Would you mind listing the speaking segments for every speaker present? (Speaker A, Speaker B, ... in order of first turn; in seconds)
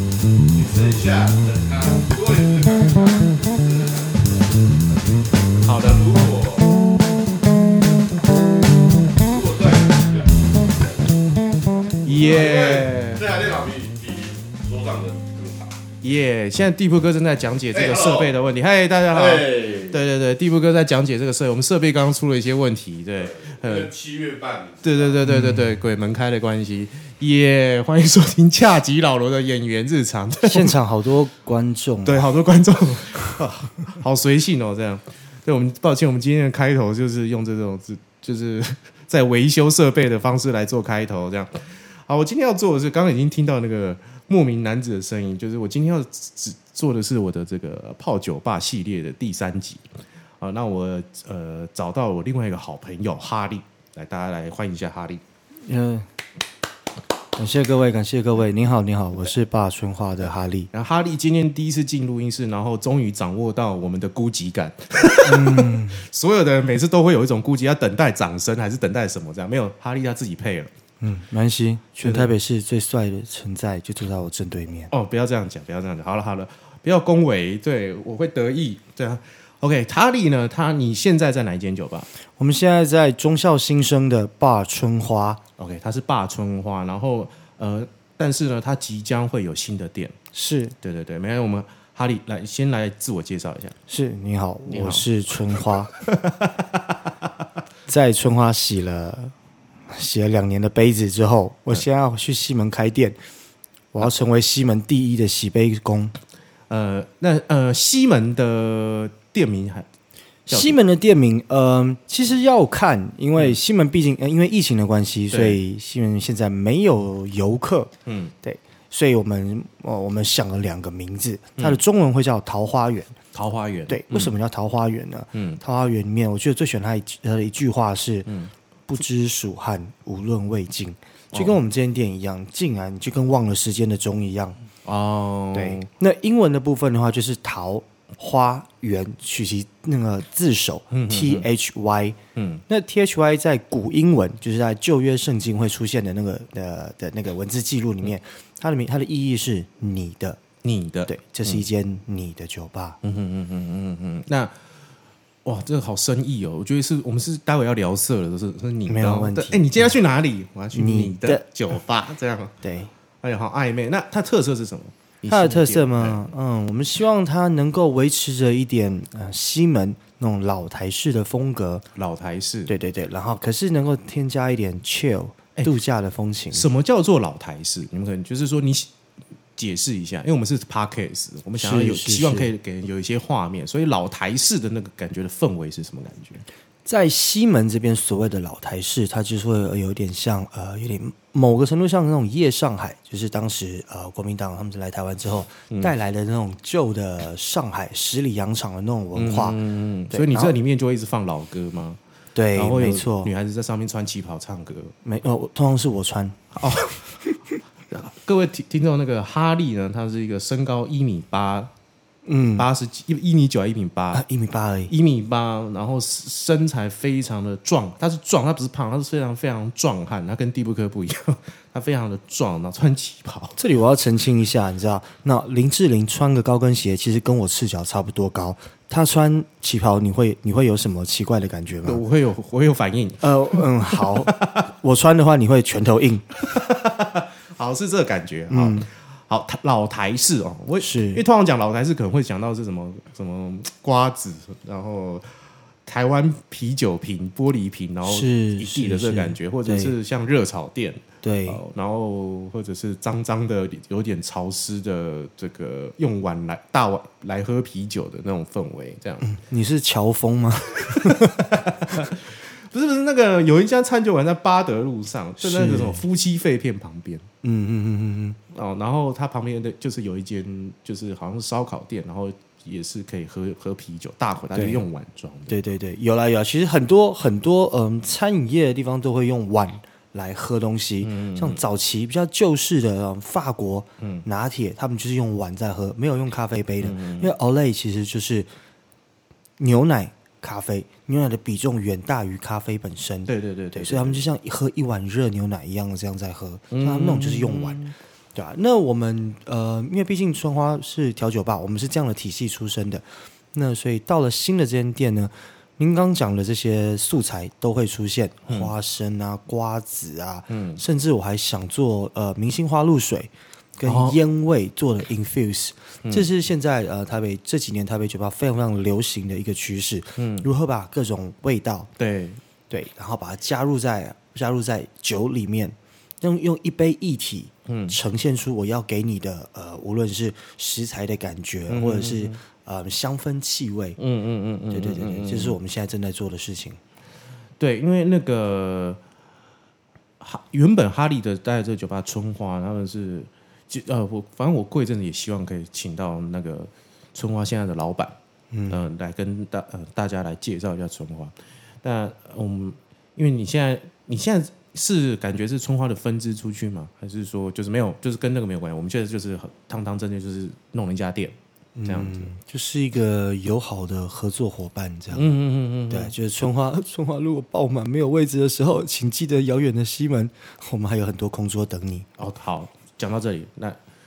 Speaker A: 0.5-4.4, 5.8-6.7, 9.2-11.0, 11.9-15.8, 17.7-18.4, 19.1-20.0, 23.2-25.2
Speaker B: 5.6-6.0, 12.0-13.4, 16.0-23.9, 24.8-30.8, 32.0-49.9, 50.4-55.2, 60.7-70.7, 72.0-72.3, 74.9-82.1, 85.6-90.2, 90.8-93.8, 94.7-95.1, 95.9-97.1, 106.7-109.9, 110.5-110.8, 115.3-115.6, 118.1-118.3, 123.3-124.3, 125.3-125.6, 131.3-131.6, 134.8-135.9, 140.9-141.5, 142.4-142.6, 150.6-151.6, 153.0-154.6, 155.4-162.6, 163.2-166.3, 172.0-172.7, 176.5-178.9, 179.6-186.4, 199.1-202.0, 202.5-204.9, 206.6-206.9, 207.9-211.7, 212.6-214.2, 214.9-223.6, 231.8-234.7, 236.4-245.3, 245.8-259.3, 260.9-267.3, 268.5-275.6, 281.0-281.6, 286.8-287.3, 293.3-294.3, 296.7-297.9, 310.5-310.8, 313.9-314.2, 320.2-320.5, 322.0-322.4, 327.7-328.0, 331.7-332.4, 334.0-335.6, 337.6-339.0, 340.2-348.2, 348.7-362.3, 365.1-366.1, 372.2-373.8
Speaker C: 25.3-25.7, 30.4-32.3, 55.6-56.1, 57.4-60.7, 65.2-66.0, 71.0-74.9, 82.4-85.4, 90.3-90.8, 93.9-95.9, 97.9-99.3, 99.9-103.2, 103.9-106.2, 110.5-117.9, 118.4-123.2, 123.9-128.3, 128.9-134.6, 135.5-142.2, 142.7-150.4, 151.1-153.0, 158.9-159.9, 160.7-161.4, 162.6-162.9, 165.3-171.8, 172.7-176.7, 181.6-182.5, 186.9-199.6, 200.1-200.6, 202.3-203.3, 205.0-207.4, 212.3-212.7, 214.1-214.9, 223.6-232.0, 233.2-236.3, 238.5-238.9, 240.8-241.2, 248.1-249.9, 251.2-251.6, 259.2-261.4, 265.4-266.0, 267.4-268.4, 274.6-274.9, 275.5-288.5, 289.6-297.8, 298.4-321.9, 322.7-334.0, 334.7-336.8, 348.5-348.8, 361.8-365.3, 365.9-372.1